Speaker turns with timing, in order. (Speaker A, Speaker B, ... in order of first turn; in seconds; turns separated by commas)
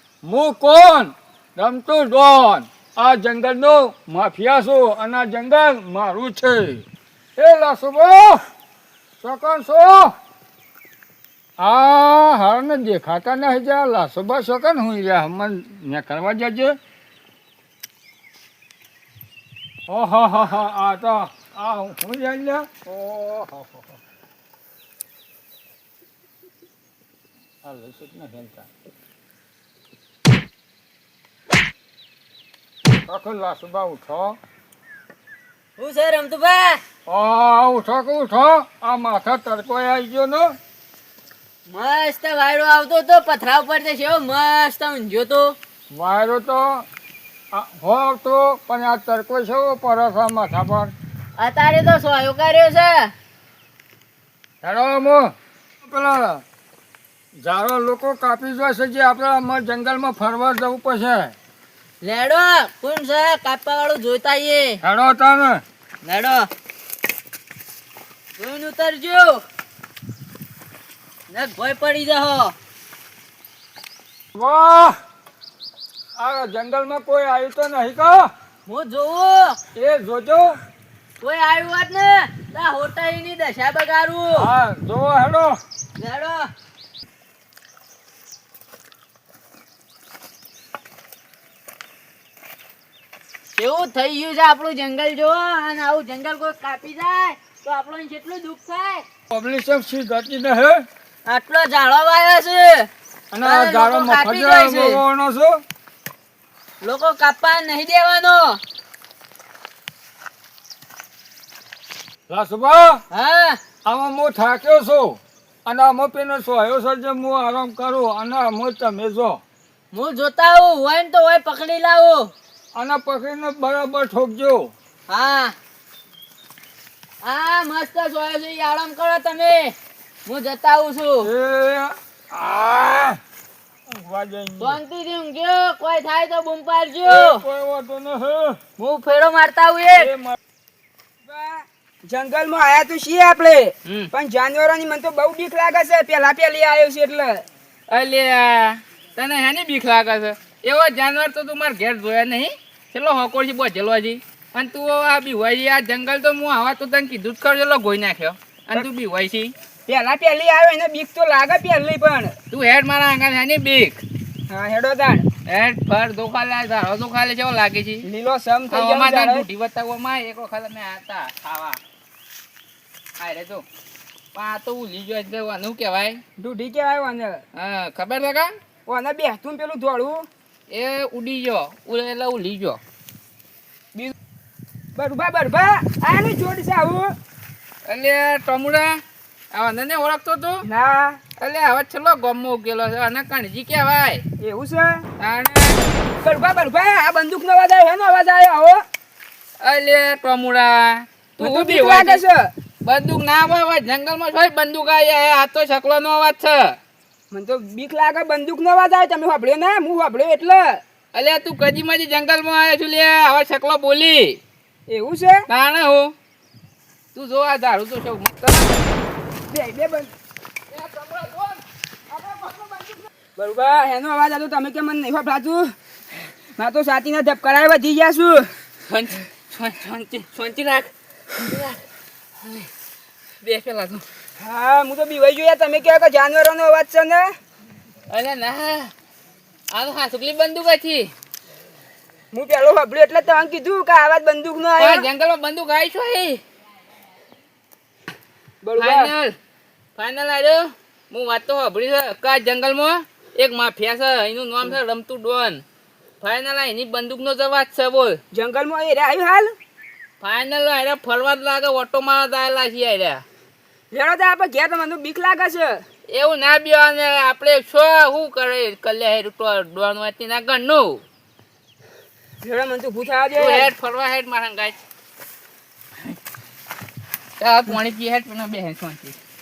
Speaker A: 0.2-6.8, Speaker A: 7.4-8.4, Speaker A: 9.2-10.1, Speaker A: 11.6-16.8, Speaker A: 19.9-23.9, Speaker A: 27.6-28.7, Speaker A: 33.0-34.4, Speaker B: 35.8-36.8, Speaker A: 37.1-40.5, Speaker B: 41.7-45.5, Speaker A: 45.9-46.8, Speaker A: 47.5-50.9, Speaker B: 51.4-53.1, Speaker A: 54.6-56.4, Speaker A: 57.4-61.3, Speaker B: 62.0-64.8, Speaker A: 64.8-65.6, Speaker B: 66.0-66.5, Speaker B: 68.4-69.4, Speaker B: 71.3-72.5, Speaker A: 74.3-75.0, Speaker A: 76.2-78.3, Speaker B: 78.7-79.6, Speaker A: 79.8-80.6, Speaker B: 81.2-84.5, Speaker A: 84.4-85.6, Speaker B: 86.0-86.5, Speaker B: 93.5-99.0, Speaker A: 99.3-100.8, Speaker B: 101.2-102.9, Speaker A: 103.3-105.6, Speaker B: 103.4-105.0, Speaker B: 106.8-108.6, Speaker A: 112.3-113.0, Speaker B: 113.1-113.6, Speaker A: 113.8-119.4, Speaker B: 119.9-122.3, Speaker A: 122.7-124.7, Speaker B: 125.1-125.5, Speaker B: 127.2-129.7, Speaker B: 130.2-131.3, Speaker A: 131.2-133.2, Speaker A: 133.9-134.8, Speaker B: 134.6-137.4, Speaker A: 137.0-138.6, Speaker B: 138.8-140.1, Speaker A: 140.0-140.4, Speaker C: 141.2-147.4, Speaker D: 147.9-159.5, Speaker C: 159.8-162.3, Speaker D: 162.5-164.0, Speaker C: 164.5-165.3, Speaker D: 165.4-168.1, Speaker C: 168.0-169.4, Speaker D: 168.7-171.8, Speaker D: 173.2-173.6, Speaker D: 174.3-176.2, Speaker C: 176.4-177.4, Speaker D: 177.5-178.6, Speaker C: 178.8-180.3, Speaker D: 180.7-182.8, Speaker C: 184.9-187.2, Speaker D: 187.8-189.0, Speaker D: 189.5-190.6, Speaker C: 190.6-191.2, Speaker D: 191.4-194.2, Speaker C: 194.4-195.1, Speaker D: 195.2-195.8, Speaker C: 196.2-198.8, Speaker D: 199.6-202.2, Speaker C: 201.4-202.5, Speaker D: 202.8-206.8, Speaker C: 207.3-210.8, Speaker D: 211.1-214.4, Speaker C: 214.9-215.4, Speaker D: 215.5-216.1, Speaker D: 217.1-218.8, Speaker C: 219.5-220.1, Speaker D: 220.7-221.6, Speaker C: 222.1-225.7, Speaker C: 226.6-228.5, Speaker D: 228.9-231.8, Speaker D: 232.4-232.7, Speaker D: 233.4-234.0, Speaker C: 234.4-237.3, Speaker D: 238.1-238.9, Speaker D: 239.7-241.1, Speaker C: 242.3-245.1, Speaker D: 244.8-246.4, Speaker C: 248.6-249.2, Speaker D: 248.8-249.3, Speaker D: 249.9-255.6, Speaker D: 256.2-258.2, Speaker C: 258.3-259.6, Speaker D: 260.2-263.2, Speaker C: 263.9-265.8, Speaker D: 266.1-271.0, Speaker C: 272.4-273.7, Speaker D: 273.3-274.8, Speaker D: 277.4-279.1